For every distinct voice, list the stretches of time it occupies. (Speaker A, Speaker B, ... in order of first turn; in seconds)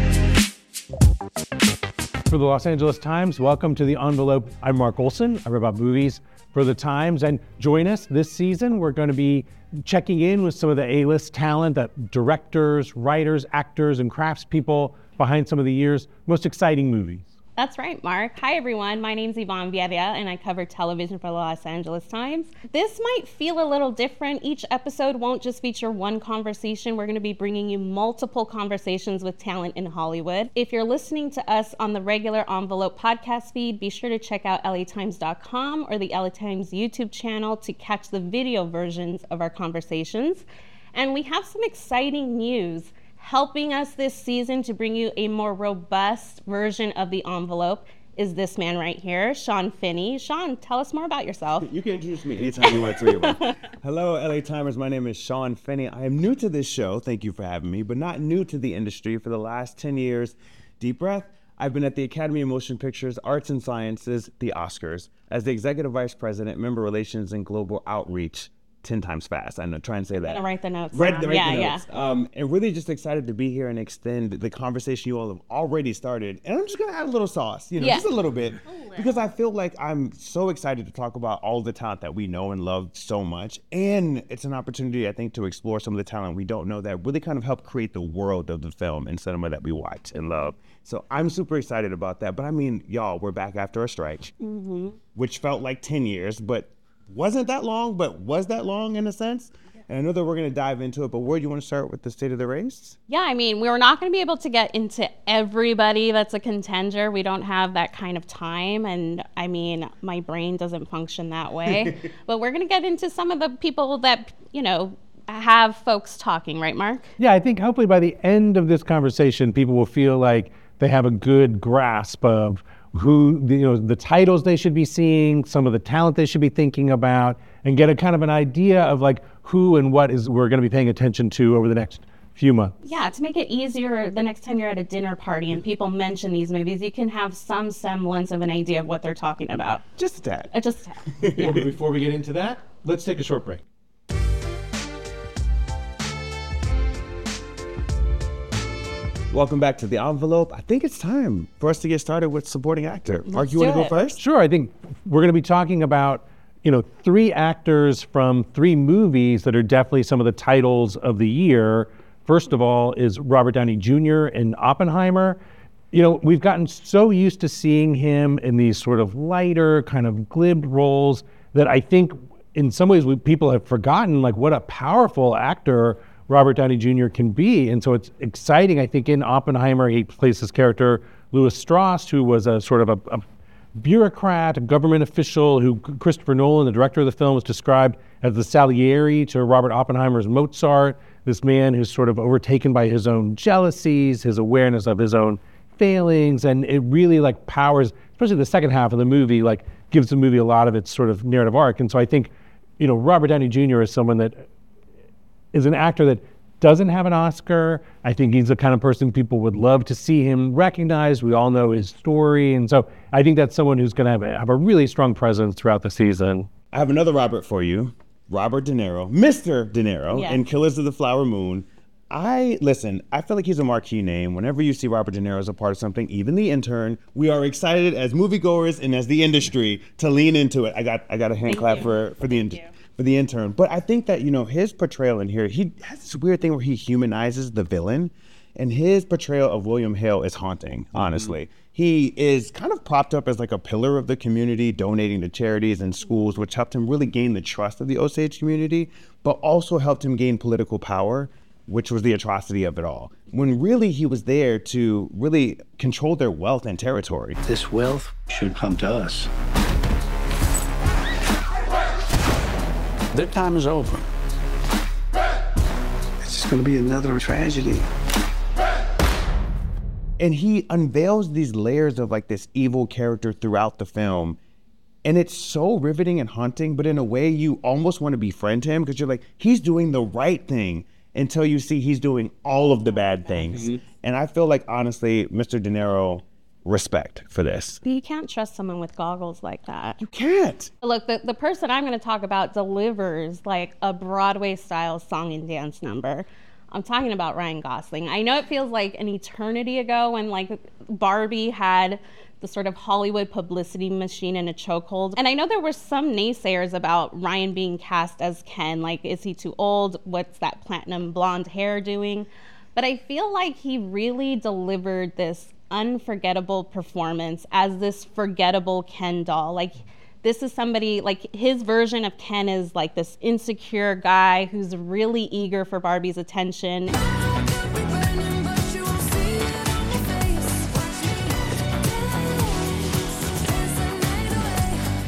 Speaker A: 2.3-17.3, 117.2-132.8, 141.3-143.6, 154.2-165.4, 165.9-183.2, 183.8-204.4, 205.5-216.5
Speaker B: 17.6-51.7, 52.7-53.5, 70.2-71.8, 77.8-78.0, 78.7-79.2, 94.4-95.0, 103.1-117.1, 132.8-139.8, 140.5-141.0, 153.3-153.9, 220.1-220.4, 231.5-231.9, 287.8-290.0, 290.8-326.9, 328.6-329.4, 330.1-330.7, 333.8-334.5
Speaker C: 51.6-70.4, 70.9-94.3, 95.1-103.0, 140.0-140.5, 141.2-141.7, 149.3-154.2, 216.7-257.4, 270.2-274.4, 275.0-287.8, 290.0-290.7
Speaker D: 257.4-259.3, 263.1-264.1, 266.2-267.9